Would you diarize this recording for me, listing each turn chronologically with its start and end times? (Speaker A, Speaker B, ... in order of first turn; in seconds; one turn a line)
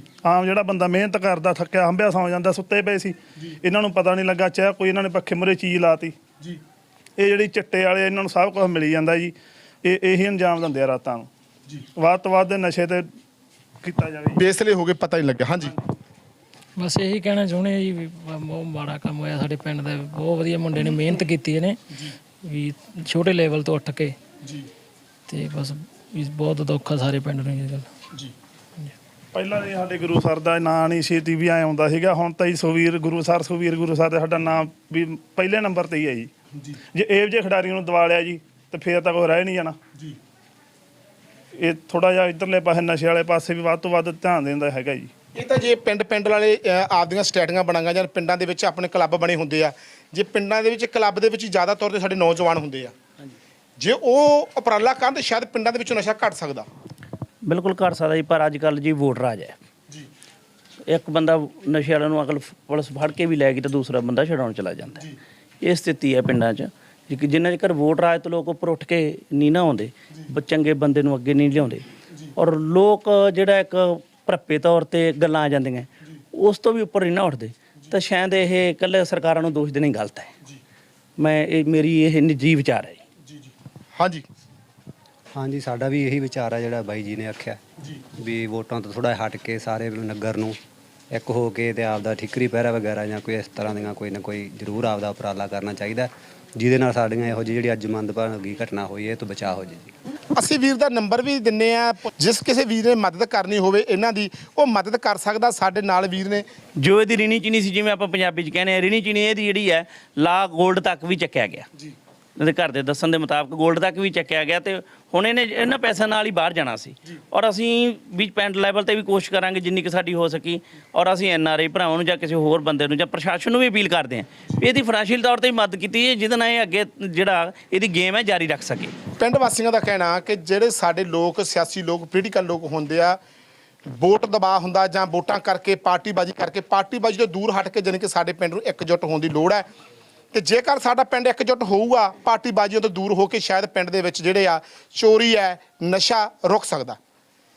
Speaker A: 0.2-6.2
Speaker A: 7.2-11.3
Speaker A: 11.8-13.1
Speaker A: 13.8-14.4
Speaker B: 14.3-15.7
Speaker C: 16.8-24.1
Speaker C: 25.3-27.9
Speaker A: 29.3-36.3
Speaker A: 36.9-39.8
Speaker A: 41.6-45.1
Speaker B: 45.4-52.9
Speaker B: 53.8-56.7
Speaker D: 57.4-59.5
Speaker D: 60.9-80.3
Speaker D: 81.2-83.0
Speaker B: 84.0-84.2
Speaker E: 85.3-87.6
Speaker E: 88.2-90.6
Speaker E: 91.1-99.9
Speaker B: 100.4-106.4
Speaker D: 106.8-111.7
Speaker D: 112.4-128.9
Speaker B: 129.2-133.2
Speaker B: 133.9-139.6
Speaker B: 140.3-147.0